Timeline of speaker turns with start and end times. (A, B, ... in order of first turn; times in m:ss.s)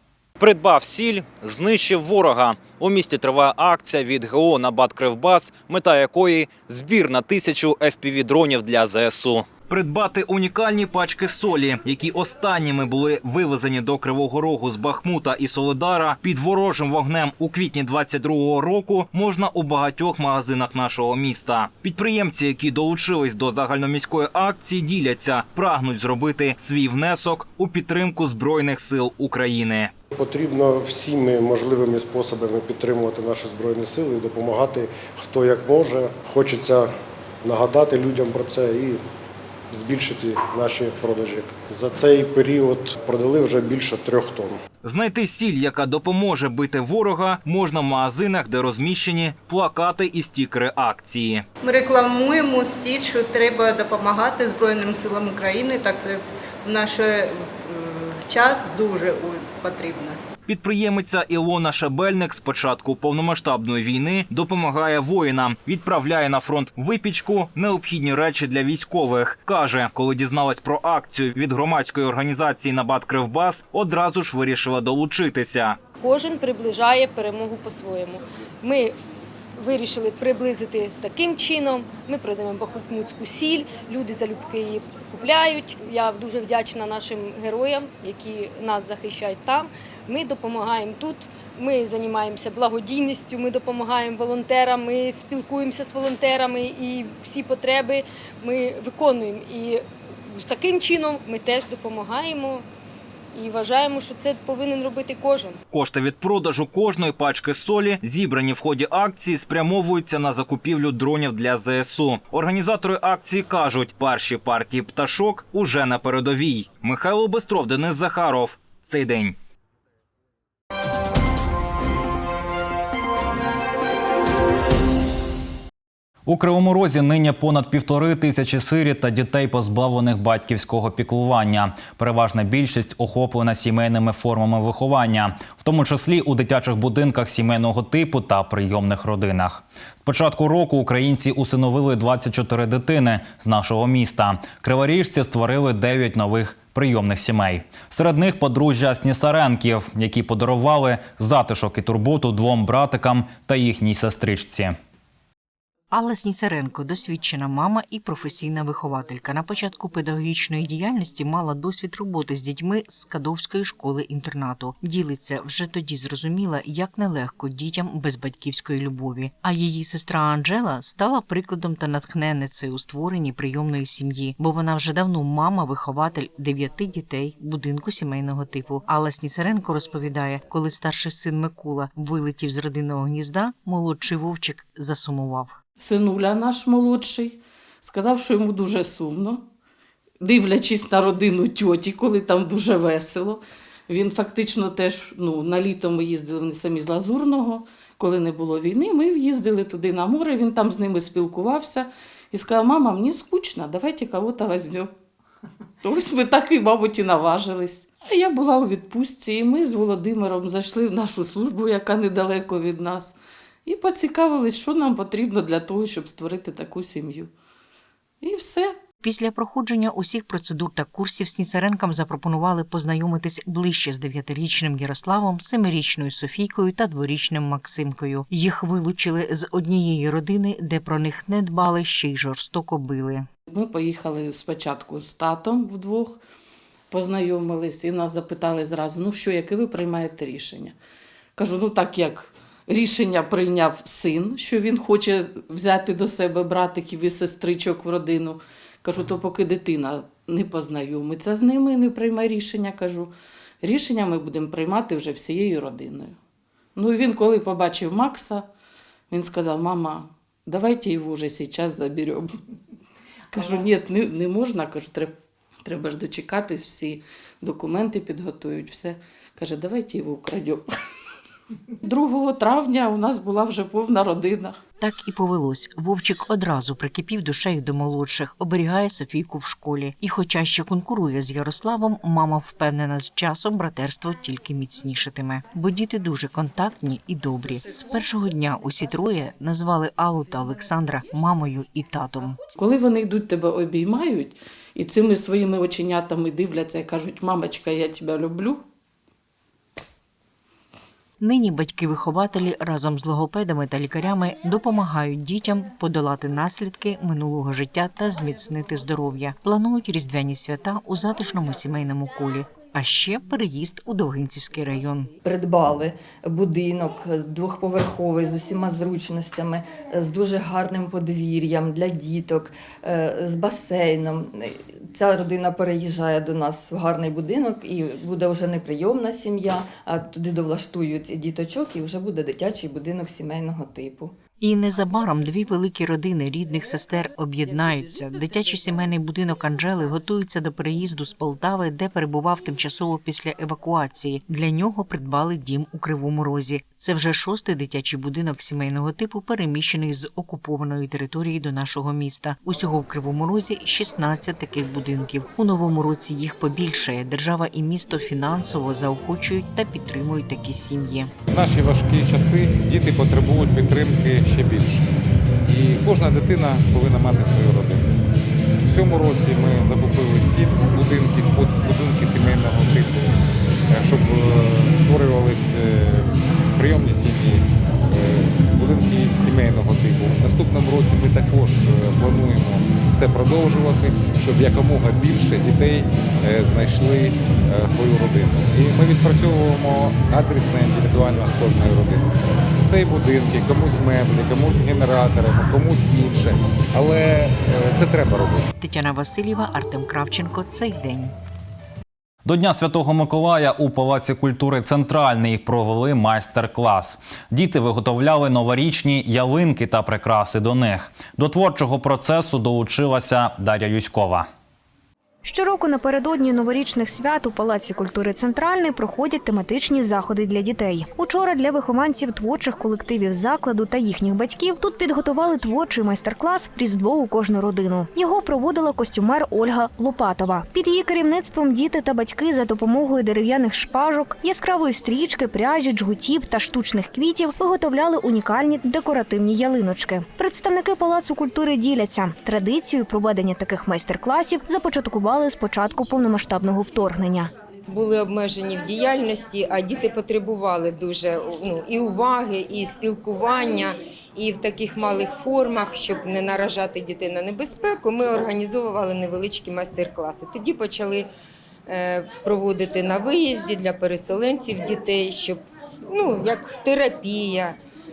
0:00.4-0:29.9 A
0:30.1-0:36.9 B
0:37.4-0:39.0 B
0:39.7-0:44.6 B
0:44.8-0:51.4 A
0:51.6-1:00.2 C
1:00.5-1:15.8 A
1:16.0-1:18.9 D
1:19.6-1:42.6 D
1:43.4-1:45.6 D
1:45.7-1:59.4 A
2:06.3-2:34.8 A
2:35.9-3:05.6 E
3:05.8-3:09.4 F
3:10.2-3:24.9 F
3:25.8-3:37.3 F
3:38.2-3:38.8 F
3:39.0-3:53.3 E
3:53.5-3:56.2 F
3:56.9-4:00.8 F
4:01.4-4:13.1 F
4:13.6-4:16.2 F
4:16.8-4:18.5 F
4:19.1-4:22.3 F
4:23.3-4:25.1 F
4:25.6-4:30.6 F
4:31.8-4:34.6 F
4:34.8-4:52.4 E
4:52.6-4:58.6 F
5:01.2-5:15.1 E
5:15.2-5:34.1 G
5:34.4-6:01.1 E
6:01.3-6:07.9 H
6:08.6-6:13.2 H
6:13.7-6:38.5 H
6:38.6-6:41.2 E
6:42.2-6:54.3 A
6:55.2-7:27.3 I
7:27.7-7:41.1 J
7:41.7-7:47.6 J